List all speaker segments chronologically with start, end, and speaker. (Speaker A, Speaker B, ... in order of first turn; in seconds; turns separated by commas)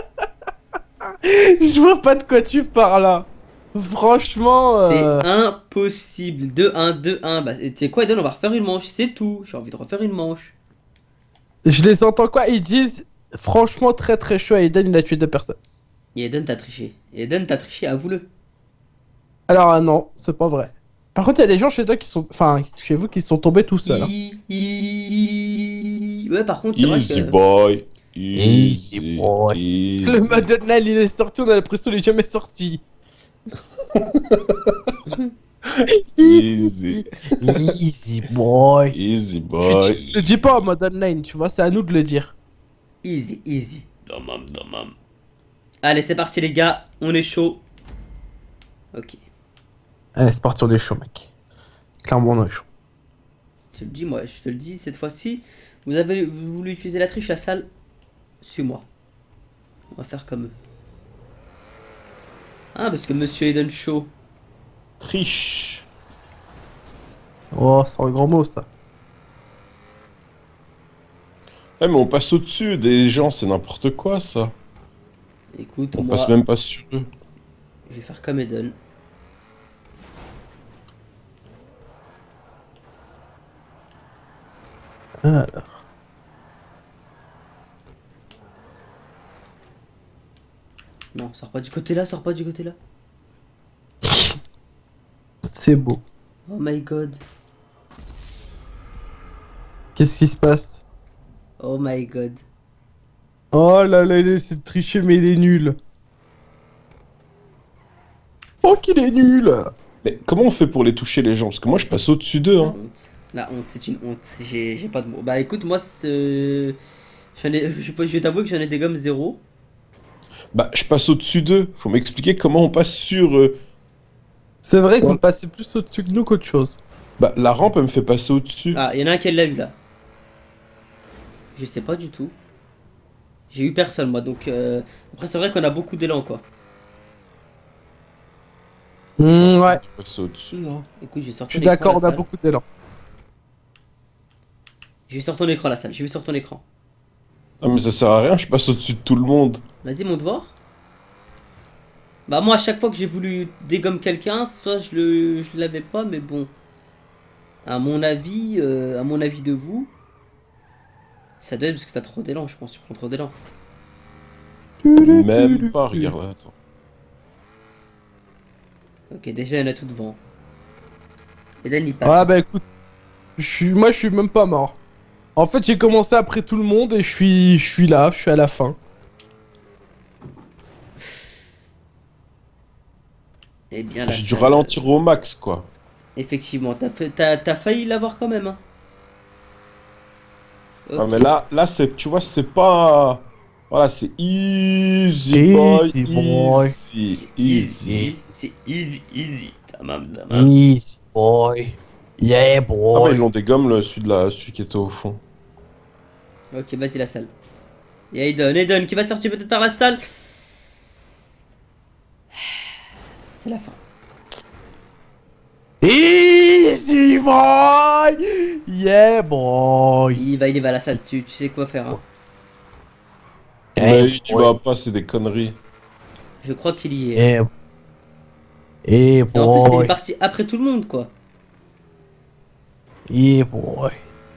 Speaker A: 1.2-5.2, Speaker B: 4.7-10.6, Speaker A: 11.6-15.6, Speaker B: 16.1-18.3, Speaker A: 19.5-24.1, Speaker B: 23.9-27.4, Speaker C: 26.8-30.5, Speaker A: 28.4-32.8, Speaker C: 34.0-34.4, Speaker A: 36.2-39.0, Speaker C: 36.2-37.7, Speaker C: 38.9-40.1, Speaker B: 39.6-40.6, Speaker A: 40.1-42.4, Speaker B: 43.0-44.9, Speaker B: 45.8-47.6, Speaker B: 48.9-49.2, Speaker A: 50.2-51.3, Speaker A: 52.0-52.7, Speaker B: 53.6-57.7, Speaker B: 58.4-58.9, Speaker B: 60.0-60.6, Speaker B: 62.8-64.1, Speaker C: 65.0-65.9, Speaker A: 67.5-68.7, Speaker C: 71.8-74.5, Speaker B: 75.5-76.3, Speaker C: 76.0-77.1, Speaker B: 77.9-78.8, Speaker A: 85.2-85.7, Speaker B: 91.1-92.8, Speaker A: 94.0-94.4, Speaker A: 95.5-96.0, Speaker B: 96.5-97.2, Speaker A: 100.0-100.8, Speaker B: 101.6-102.4, Speaker A: 103.5-105.8, Speaker A: 108.6-109.7, Speaker C: 110.0-112.8, Speaker B: 112.6-116.8, Speaker B: 117.3-119.4, Speaker C: 120.5-123.6, Speaker A: 124.6-126.8, Speaker C: 127.2-128.8, Speaker B: 128.7-129.8, Speaker B: 131.6-132.4, Speaker B: 133.5-136.5, Speaker A: 139.2-139.8, Speaker C: 139.3-140.9, Speaker B: 141.0-142.2, Speaker A: 141.5-142.6, Speaker B: 145.1-146.6, Speaker C: 147.6-149.6, Speaker B: 149.8-150.6, Speaker B: 152.3-156.5, Speaker B: 157.6-159.9, Speaker B: 161.4-163.4, Speaker A: 164.8-166.1, Speaker C: 165.0-166.5, Speaker B: 169.1-170.2, Speaker B: 171.6-172.3, Speaker A: 172.0-172.7, Speaker A: 173.4-174.8, Speaker A: 175.4-178.8, Speaker B: 183.7-184.9, Speaker C: 184.1-185.7, Speaker B: 186.2-188.6, Speaker B: 190.9-191.3, Speaker C: 191.0-198.1, Speaker A: 195.3-196.8, Speaker B: 197.3-200.5, Speaker A: 197.8-198.1, Speaker A: 200.3-203.2, Speaker C: 202.9-205.2, Speaker B: 206.5-207.3, Speaker B: 208.1-210.0, Speaker B: 213.3-213.8, Speaker A: 215.8-220.2, Speaker B: 220.1-222.0, Speaker C: 223.8-225.6, Speaker A: 223.8-224.5, Speaker B: 226.4-227.3, Speaker A: 227.2-227.5, Speaker A: 228.8-230.0, Speaker B: 229.3-231.1, Speaker A: 233.1-234.0